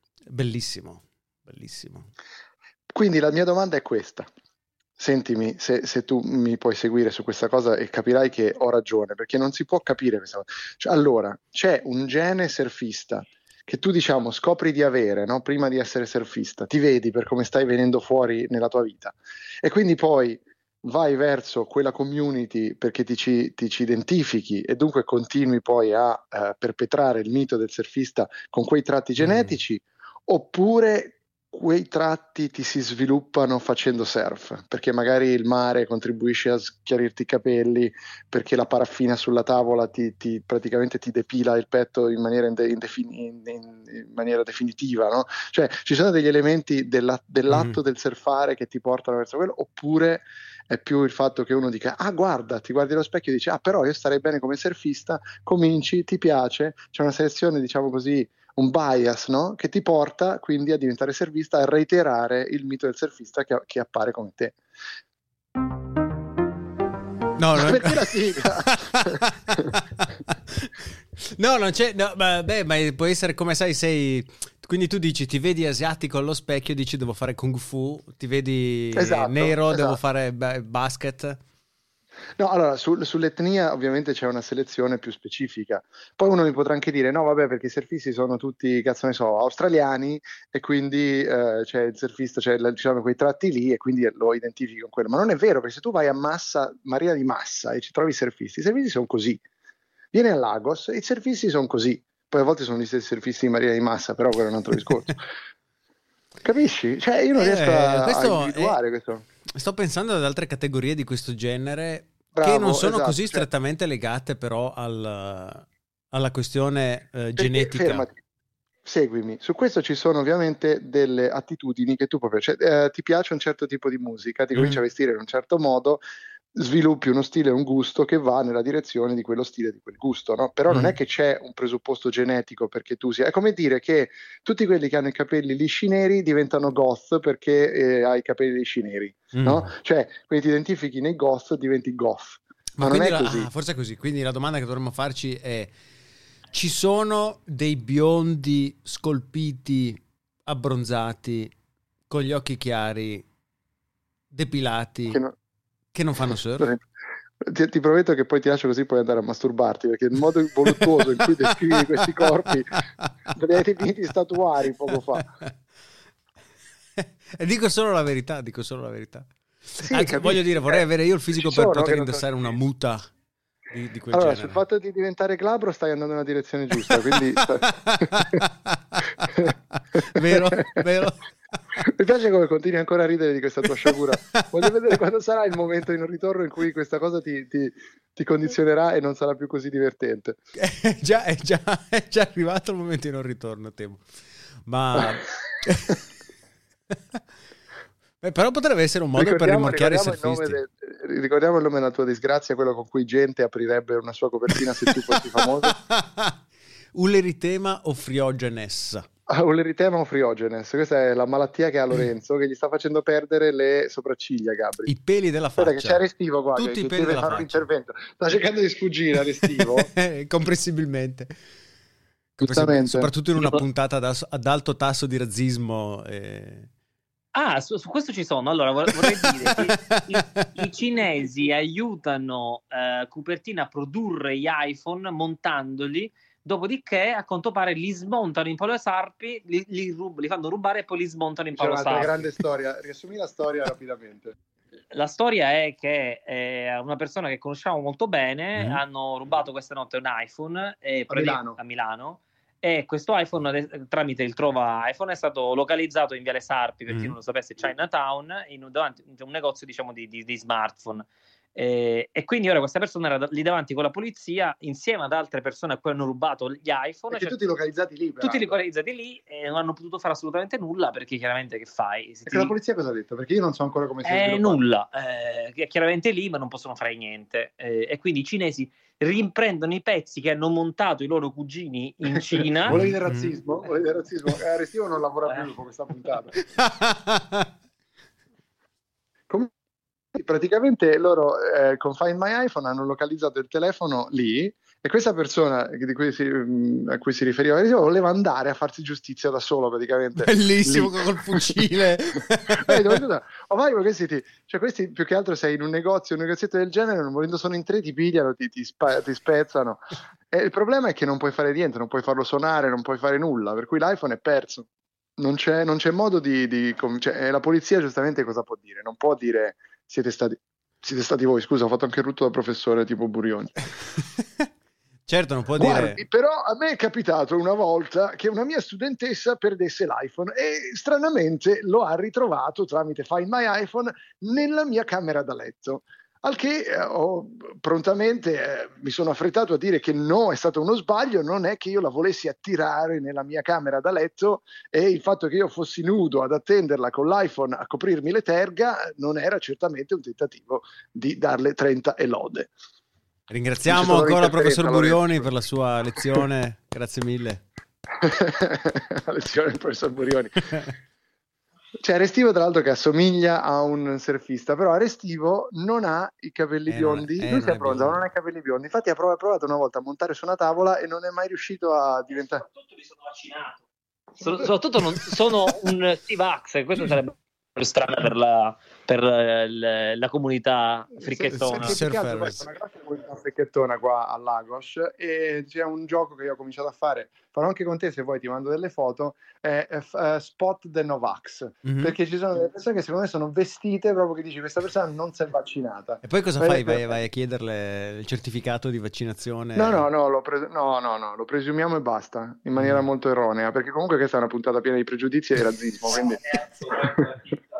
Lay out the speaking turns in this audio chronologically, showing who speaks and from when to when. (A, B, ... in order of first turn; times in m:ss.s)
0:00.3-0:02.1 A
0:02.9-0:04.3 B
0:05.0-1:04.6 B
0:29.2-0:29.6 A
0:47.5-0:47.8 A
1:07.4-1:10.7 A
1:07.6-1:09.7 B
1:11.4-1:21.4 A
1:19.0-1:20.0 B
1:22.4-1:39.4 B
1:40.1-1:45.3 B
1:46.4-1:49.2 B
1:47.3-1:48.8 A
1:49.6-1:58.1 A
1:52.3-1:53.4 B
1:57.4-1:58.2 B
1:58.8-2:06.0 B
2:04.5-2:04.8 A
2:06.5-2:23.5 B
2:10.7-2:11.0 A
2:19.3-2:19.7 A
2:22.8-2:25.7 A
2:26.5-2:31.5 A
2:32.1-2:33.2 A
2:34.3-2:35.2 A
2:35.9-2:36.7 A
2:37.4-2:45.2 B
2:40.8-2:41.4 A
2:42.0-2:42.2 A
2:47.0-2:53.1 A
2:49.8-2:50.8 B
2:51.4-2:52.3 B
2:53.7-2:54.6 A
2:54.1-2:58.4 B
2:56.9-2:59.5 A
2:59.3-3:00.8 B
3:00.1-3:01.2 A
3:01.8-3:10.4 B
3:03.8-3:04.6 A
3:10.6-3:14.0 A
3:14.6-3:16.0 A
3:15.0-3:15.2 B
3:18.2-3:20.6 A
3:19.1-3:25.8 B
3:25.8-3:26.3 A
3:26.9-3:29.0 A
3:29.3-3:34.9 B
3:34.8-3:36.0 A
3:35.6-3:39.9 B
3:36.5-3:37.7 A
3:39.3-3:41.3 A
3:42.4-3:43.6 B
3:42.4-3:46.7 A
3:47.3-4:02.2 C
3:49.2-3:50.4 A
4:01.5-4:04.3 B
4:04.9-4:27.4 C
4:08.6-4:08.8 A
4:11.1-4:11.6 B
4:16.9-4:17.1 A
4:27.1-4:28.5 B
4:28.2-4:32.5 C
4:32.3-4:34.6 B
4:34.0-4:42.8 C
4:42.2-4:46.4 B
4:42.7-4:43.4 A
4:46.5-4:47.4 A
4:50.1-5:01.6 B
5:00.2-5:03.0 A
5:02.5-5:14.7 B
5:15.2-5:23.6 B
5:25.0-5:26.0 A
5:25.6-5:52.5 B
5:53.3-5:57.4 A
5:53.6-5:55.2 B
5:58.0-6:00.7 B
6:01.8-6:12.4 B
6:06.7-6:08.0 A
6:12.2-6:13.6 C
6:14.2-6:21.8 C
6:21.0-6:36.9 B
6:21.5-6:22.4 A
6:31.6-6:31.9 A
6:36.0-6:39.8 A
6:39.6-6:47.1 B
6:42.6-6:42.8 A